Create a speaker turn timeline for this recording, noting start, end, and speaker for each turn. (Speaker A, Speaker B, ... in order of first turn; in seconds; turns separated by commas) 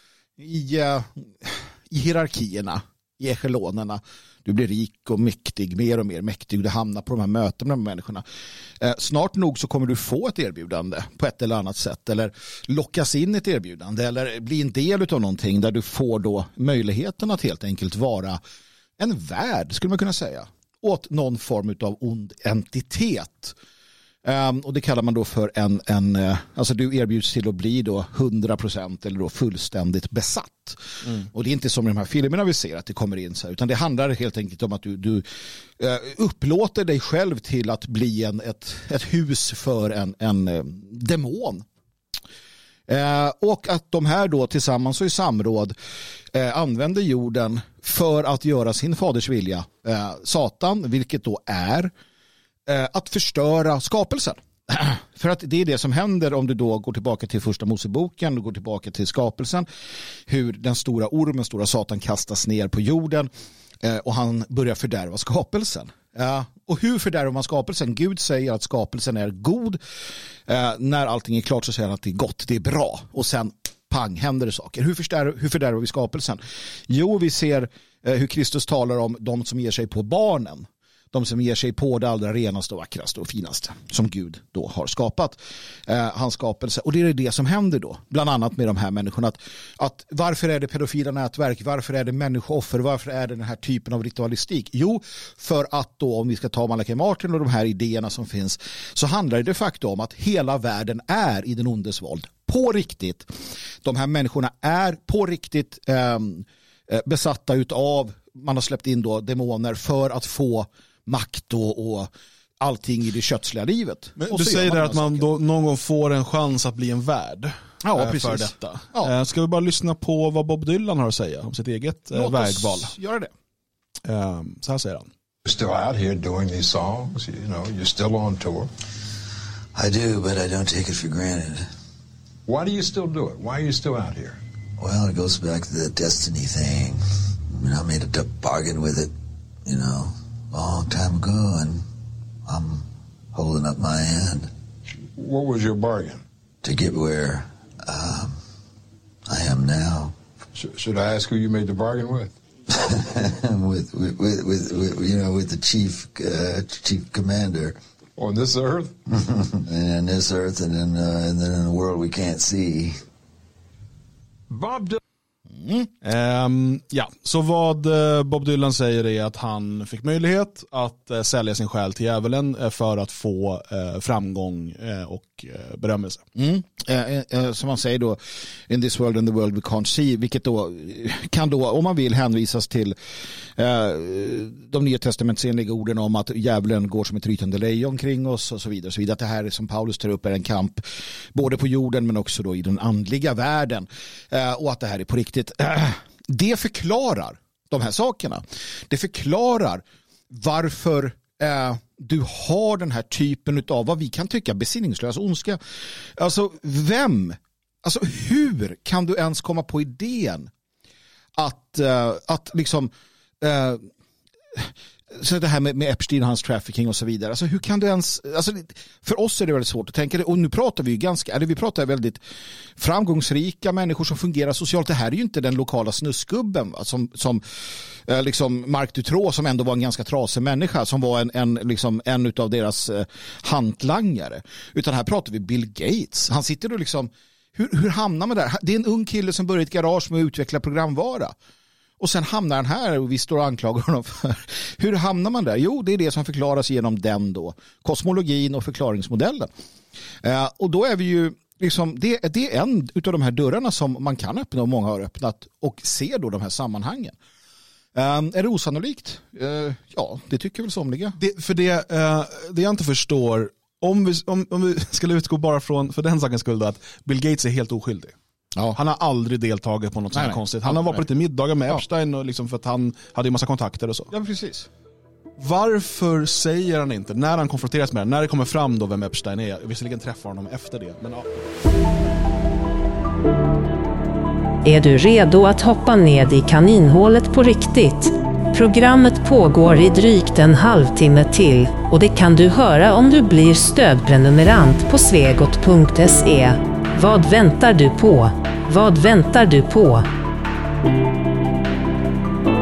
Speaker A: 0.4-8.2, Speaker A: 8.8-18.4, Speaker A: 19.0-23.6, Speaker A: 24.2-41.6, Speaker A: 42.9-45.7, Speaker A: 46.3-51.9, Speaker A: 52.6-59.7, Speaker A: 60.2-63.3, Speaker A: 63.8-69.8, Speaker A: 70.5-103.3, Speaker A: 103.8-115.2, Speaker B: 114.2-122.9, Speaker A: 117.8-119.1, Speaker A: 122.1-123.3, Speaker B: 124.0-125.1, Speaker C: 125.4-128.7, Speaker D: 129.7-131.7, Speaker C: 132.4-134.4, Speaker D: 134.8-139.1, Speaker D: 139.6-141.8, Speaker D: 142.4-144.5, Speaker C: 145.1-146.2, Speaker D: 146.6-148.4, Speaker D: 149.3-150.1, Speaker C: 150.5-152.3, Speaker D: 152.7-157.8, Speaker C: 158.2-158.9, Speaker D: 159.6-163.0, Speaker C: 164.5-165.0, Speaker A: 165.5-165.9, Speaker B: 166.0-176.2, Speaker A: 176.3-182.9, Speaker A: 183.5-210.5, Speaker A: 211.3-213.9, Speaker A: 214.5-222.2, Speaker A: 222.8-241.3, Speaker A: 242.0-249.5, Speaker A: 250.2-257.1, Speaker A: 257.9-261.2, Speaker B: 261.2-268.1, Speaker B: 268.7-274.1, Speaker A: 270.1-271.0, Speaker A: 274.1-274.7, Speaker B: 275.4-281.5, Speaker E: 284.6-300.1